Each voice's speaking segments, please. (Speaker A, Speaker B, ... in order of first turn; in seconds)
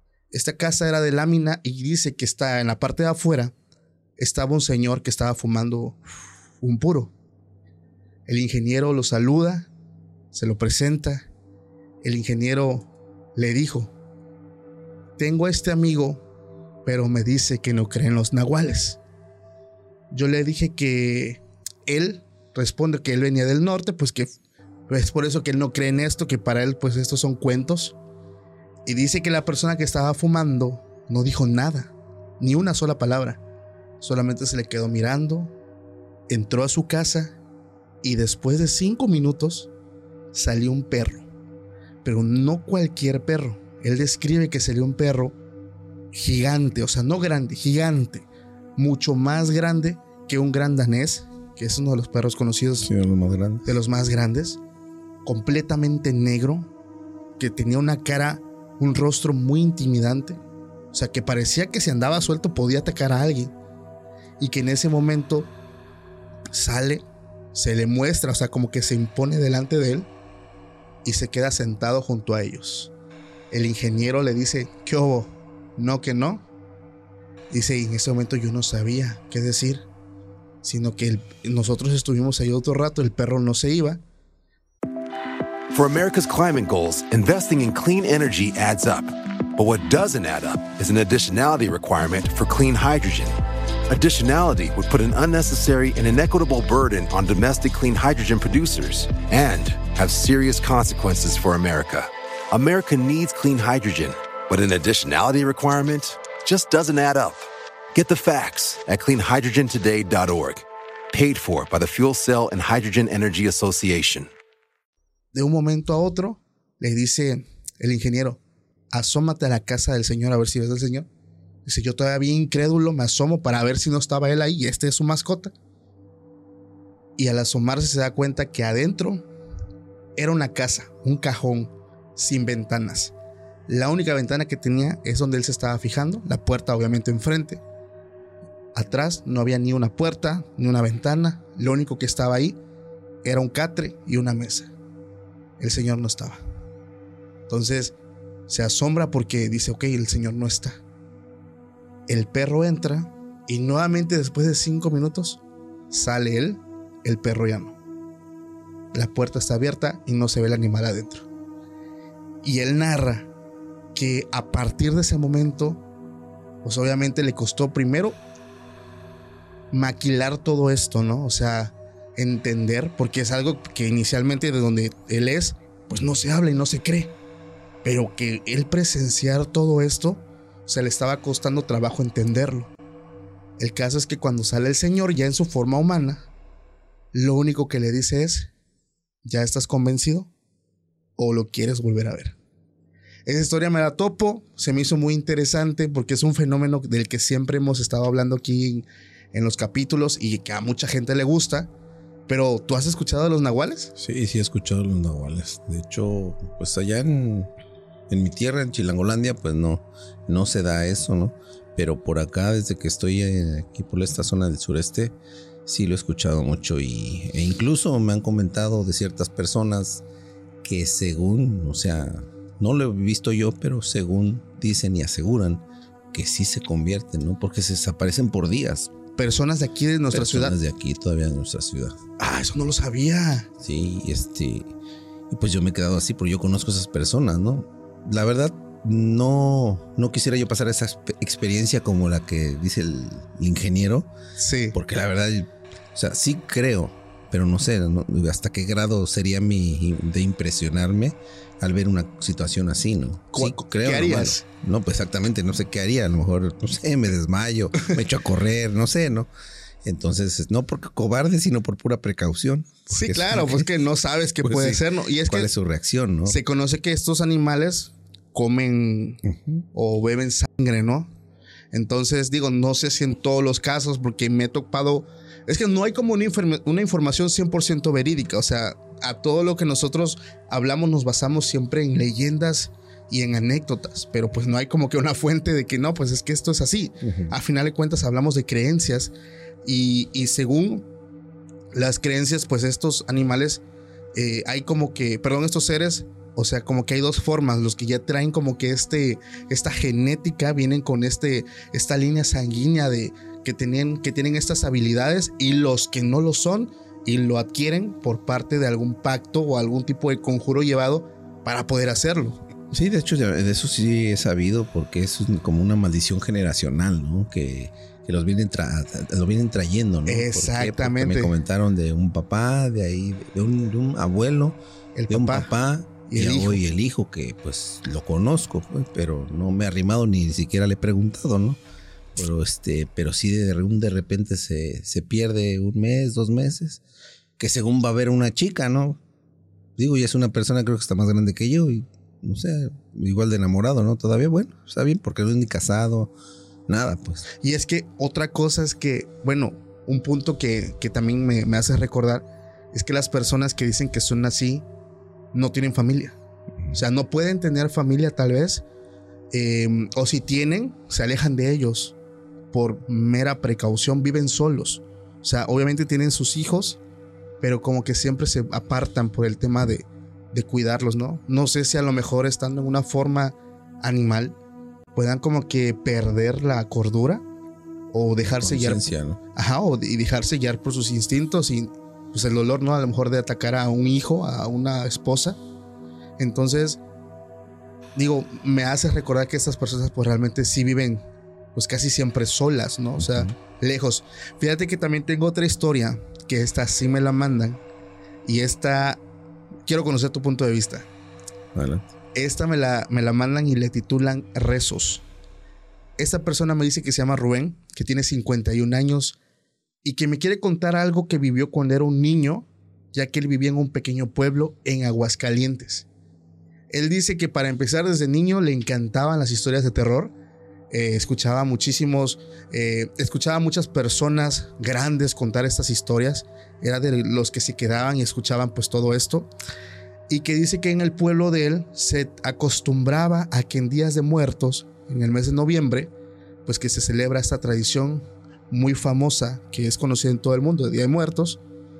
Speaker A: 0.3-3.5, 4.2-6.0, 6.6-7.1, 8.3-9.7, 10.3-11.3, 12.0-13.9, 15.2-16.2, 16.8-19.0, 20.1-24.4, 24.9-27.9, 28.9-33.4, 34.0-35.5, 36.3-37.4, 38.0-39.7, 40.3-41.3, 42.0-45.4, 46.1-52.9, 53.6-54.6, 55.2-56.7, 57.4-60.4, 60.9-63.5, 64.4-65.5, 66.5-70.1, 71.0-72.9, 73.5-76.4, 77.5-79.8, 80.6-84.0, 115.3-118.4, 118.9-121.1, 121.6-125.5, 127.2-129.2, 130.2-133.1, 133.7-137.6, 138.7-142.6, 143.2-144.7, 145.6-146.4, 147.5-147.9, 148.5-150.8, 152.1-157.7, 158.9-161.2, 162.4-163.3, 163.9-165.8, 166.6-168.2, 169.7-177.1, 177.8-182.7, 183.6-186.3, 187.1-188.5, 189.2-190.3, 191.2-192.3, 193.3-201.7, 202.3-203.9, 229.2-230.5, 232.2-233.5, 244.4-244.8, 253.3-254.4, 262.9-265.5, 266.2-269.2, 269.7-271.1, 271.7-290.9, 291.7-293.6, 294.1-312.4, 320.1-321.3, 324.9-325.5, 326.1-326.6, 347.4-354.6, 355.3-356.2, 356.7-358.6, 359.3-361.9, 362.5-366.8, 367.4-374.4, 374.9-377.2, 377.9-385.4, 386.2-386.8, 387.9-397.6, 398.2-399.0, 399.6-400.9, 402.1-405.0, 406.0-409.2, 409.8-415.9, 416.7-420.1, 420.7-429.3, 430.1-435.9, 436.4-441.4
Speaker B: 52.8-53.7, 204.0-207.5, 208.1-215.1, 215.7-220.0, 220.6-228.9, 230.1-231.9, 233.6-234.7, 235.3-244.1, 244.7-259.3, 259.8-263.7, 264.4-266.4, 269.2-269.6, 287.0-287.4, 312.7-324.6, 325.1-331.6, 332.1-336.8, 337.4-339.0, 339.8-346.1, 346.7-347.2, 378.3-379.2, 393.0-393.3, 401.5-401.9
Speaker C: 85.7-93.3, 93.9-114.3